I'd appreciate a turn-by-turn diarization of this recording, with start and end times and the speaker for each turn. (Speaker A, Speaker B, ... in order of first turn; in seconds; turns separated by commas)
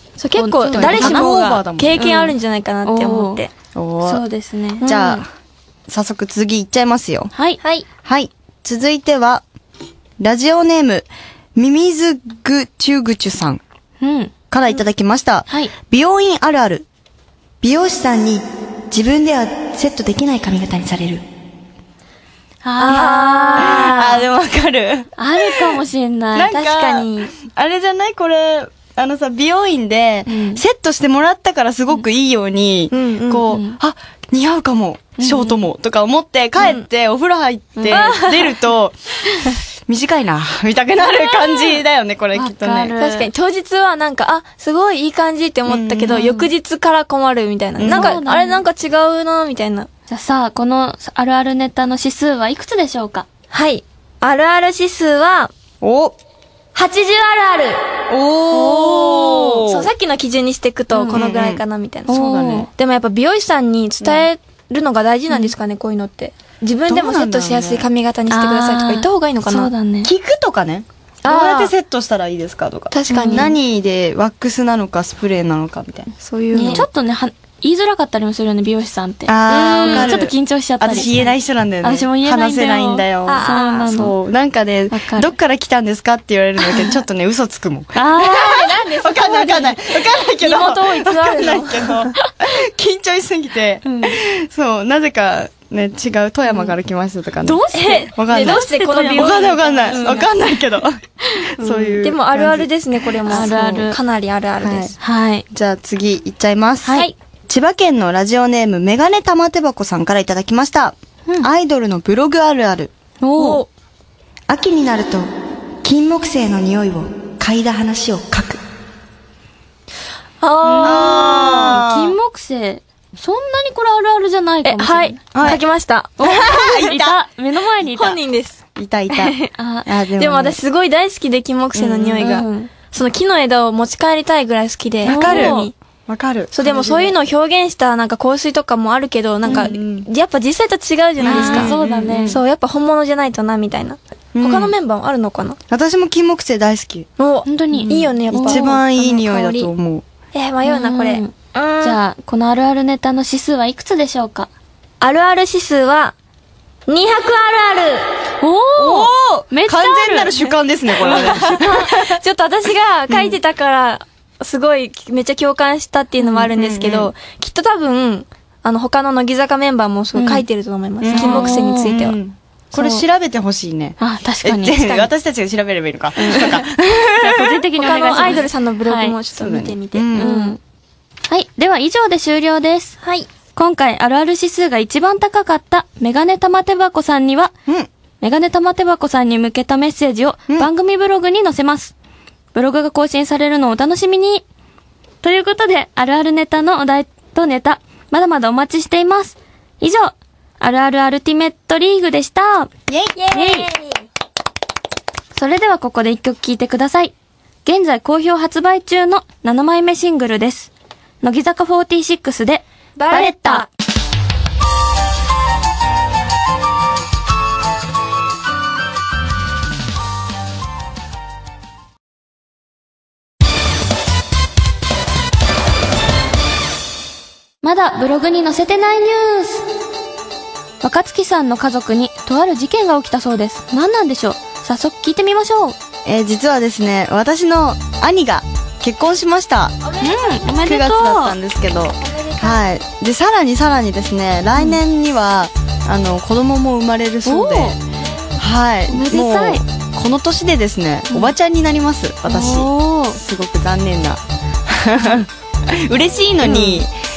Speaker A: 0.2-3.5, Speaker B: 0.3-1.3, Speaker C: 0.7-2.0, Speaker B: 1.9-3.4, Speaker C: 3.7-4.2, Speaker B: 4.0-4.9, Speaker A: 4.8-5.2, Speaker C: 4.8-5.3, Speaker C: 5.9-7.3, Speaker B: 7.3-7.6, Speaker C: 8.0-9.4, Speaker C: 10.2-13.6, Speaker B: 14.0-14.3, Speaker C: 14.5-16.9, Speaker B: 15.5-15.7, Speaker C: 17.6-21.2, Speaker B: 22.6-24.1, Speaker A: 22.8-24.2, Speaker C: 23.6-25.8, Speaker B: 25.2-26.5, Speaker C: 26.3-39.0, Speaker A: 26.5-27.3, Speaker B: 30.3-30.6, Speaker A: 32.9-33.5, Speaker B: 33.5-33.8, Speaker B: 35.2-35.6, Speaker A: 36.6-36.8, Speaker A: 37.8-38.6, Speaker B: 37.9-38.1, Speaker C: 39.9-42.9, Speaker B: 41.0-41.8, Speaker B: 42.3-43.3, Speaker A: 43.0-49.9, Speaker C: 45.7-46.2, Speaker B: 46.1-46.5, Speaker C: 47.8-48.2, Speaker B: 47.9-48.6, Speaker B: 50.1-53.2, Speaker A: 53.5-55.5, Speaker C: 55.8-56.1, Speaker A: 56.7-57.8, Speaker C: 58.1-59.9, Speaker A: 58.5-62.2, Speaker B: 60.9-61.2, Speaker C: 61.1-62.7, Speaker B: 62.1-62.7, Speaker A: 62.7-69.7, Speaker C: 66.9-67.9, Speaker B: 68.3-70.1, Speaker C: 70.0-76.8, Speaker A: 71.2-71.7, Speaker A: 72.9-73.5, Speaker B: 73.1-73.5, Speaker A: 76.3-76.8, Speaker B: 76.5-81.3, Speaker C: 79.3-97.6, Speaker A: 79.5-80.2, Speaker B: 81.8-84.1, Speaker A: 83.2-84.1, Speaker B: 84.9-85.3, Speaker B: 87.9-88.6, Speaker A: 88.2-92.1, Speaker B: 93.8-94.2, Speaker B: 96.5-96.7, Speaker B: 97.4-100.3, Speaker A: 97.7-100.2, Speaker C: 98.2-103.5, Speaker B: 101.2-102.0, Speaker A: 102.0-104.9, Speaker B: 103.3-104.0, Speaker C: 104.6-104.9, Speaker B: 105.0-105.4, Speaker C: 105.5-112.9, Speaker B: 106.8-107.1, Speaker A: 106.9-107.1, Speaker B: 113.2-113.6, Speaker A: 113.3-113.7, Speaker C: 114.5-115.2, Speaker C: 115.8-118.6, Speaker A: 120.4-121.8, Speaker B: 120.6-125.2, Speaker C: 120.8-122.2, Speaker A: 124.6-126.9, Speaker C: 125.3-125.6, Speaker B: 126.2-128.2, Speaker C: 126.2-127.2, Speaker A: 127.8-129.5, Speaker C: 128.7-130.6, Speaker B: 129.6-129.9, Speaker A: 130.2-135.7, Speaker C: 131.7-132.2, Speaker B: 132.2-132.7, Speaker B: 135.0-135.7, Speaker C: 135.0-137.1, Speaker A: 136.5-145.6, Speaker C: 139.4-140.1, Speaker B: 139.4-139.7, Speaker C: 141.2-142.4, Speaker B: 141.2-142.4, Speaker C: 144.3-144.7, Speaker C: 145.7-147.1, Speaker A: 147.2-149.7, Speaker B: 147.4-148.7, Speaker C: 147.7-150.0, Speaker A: 150.3-152.0, Speaker B: 150.6-154.5, Speaker A: 155.0-156.1, Speaker A: 156.9-158.1, Speaker B: 158.4-160.5, Speaker C: 158.8-162.2, Speaker A: 161.0-172.2, Speaker B: 161.1-161.3, Speaker C: 163.1-163.4, Speaker B: 166.2-166.5, Speaker C: 166.5-167.1, Speaker B: 170.1-170.4, Speaker C: 171.0-178.4, Speaker B: 171.1-171.9, Speaker A: 172.7-173.0, Speaker B: 174.0-175.0, Speaker B: 176.2-176.6, Speaker B: 177.2-179.2, Speaker A: 177.8-180.6, Speaker C: 179.3-180.3, Speaker B: 180.1-180.6, Speaker B: 181.3-182.9, Speaker A: 183.0-183.3, Speaker B: 183.5-187.5, Speaker B: 188.2-191.9, Speaker B: 192.5-194.4, Speaker B: 195.2-202.7, Speaker C: 202.9-203.2, Speaker A: 203.1-204.0, Speaker B: 203.3-203.7, Speaker B: 205.3-207.1, Speaker B: 207.6-213.7, Speaker A: 212.9-213.7, Speaker B: 227.6-229.6, Speaker B: 230.8-235.8, Speaker C: 236.0-239.8, Speaker A: 239.8-240.4, Speaker B: 240.0-241.3, Speaker C: 240.5-247.8, Speaker A: 242.0-242.6, Speaker B: 247.2-247.8, Speaker C: 248.4-256.9, Speaker B: 248.9-249.6, Speaker B: 252.2-253.2, Speaker B: 256.4-256.8